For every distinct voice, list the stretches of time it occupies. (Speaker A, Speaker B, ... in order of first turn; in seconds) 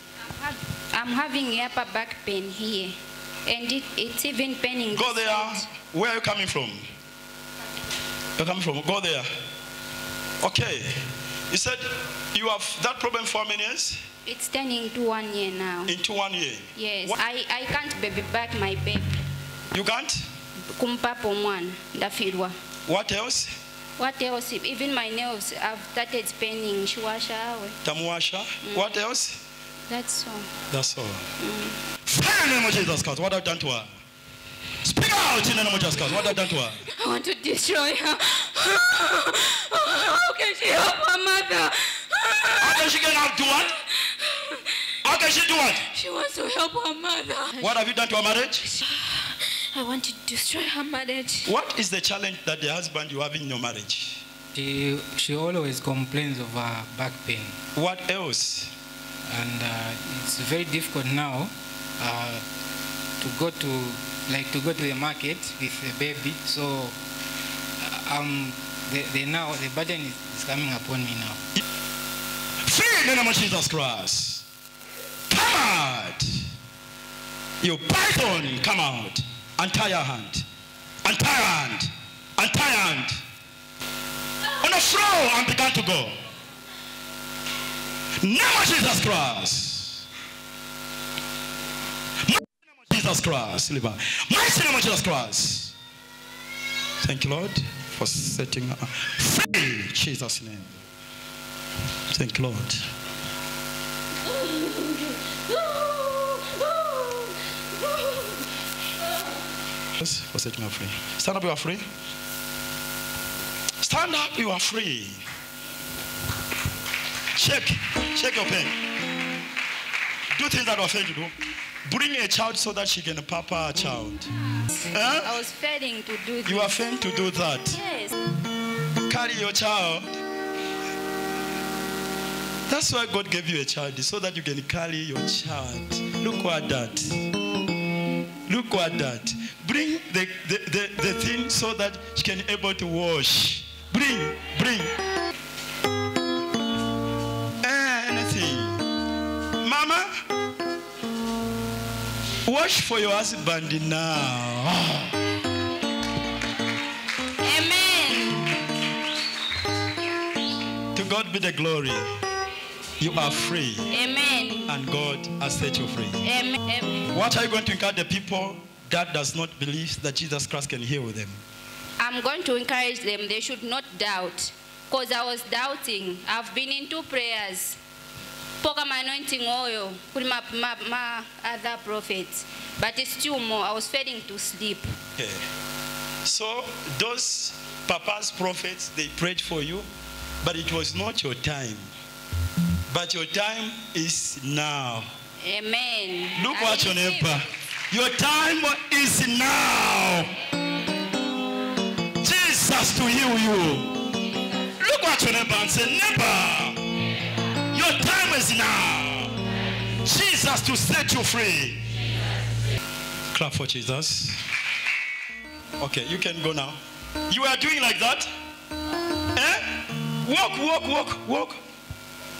Speaker A: 0.3-2.9, 3.5-5.6, 14.2-15.9, 16.8-19.2, 20.8-22.5, 24.0-27.8, 29.9-30.5, 31.4-31.8, 36.9-42.9, 43.9-44.7, 45.9-47.7, 48.7-51.5, 104.3-108.3, 125.2-126.7, 127.7-128.2, 157.4-158.6, 163.9-164.7, 166.2-167.1, 172.0-177.8, 178.6-184.9, 195.4-197.3
Speaker B: 4.9-6.8, 8.4-9.3, 10.4-14.0, 15.9-17.2, 19.7-20.2, 22.9-23.5, 27.8-29.4, 30.7-31.3, 32.0-33.9, 34.8-36.9, 42.6-43.7, 45.0-45.9, 47.6-48.6, 51.4-54.2, 57.7-58.7, 72.6-74.4, 75.3-76.2, 77.6-80.4, 81.0-83.2, 84.6-86.2, 88.2-90.0, 92.2-95.7, 97.0-100.8, 102.1-102.8, 110.0-111.9, 113.8-115.2, 117.3-118.8, 120.3-121.3, 121.8-124.3, 124.9-125.3, 126.5-127.8, 129.1-130.1, 132.7-137.2, 138.5-144.9, 147.6-148.8, 149.6-150.1, 152.4-155.1, 160.9-162.1, 163.0-163.9, 164.7-166.2, 167.1-171.4, 185.2-185.4, 186.2-189.9, 190.4-191.9, 192.9-195.1, 196.3-200.3, 202.2-203.9, 204.8-206.8, 207.7-209.3, 210.0-211.8, 213.3-214.4, 215.8-216.8, 217.3-218.3, 219.3-221.6
Speaker C: 54.5-57.6, 59.3-62.4, 63.2-67.0, 67.8-71.4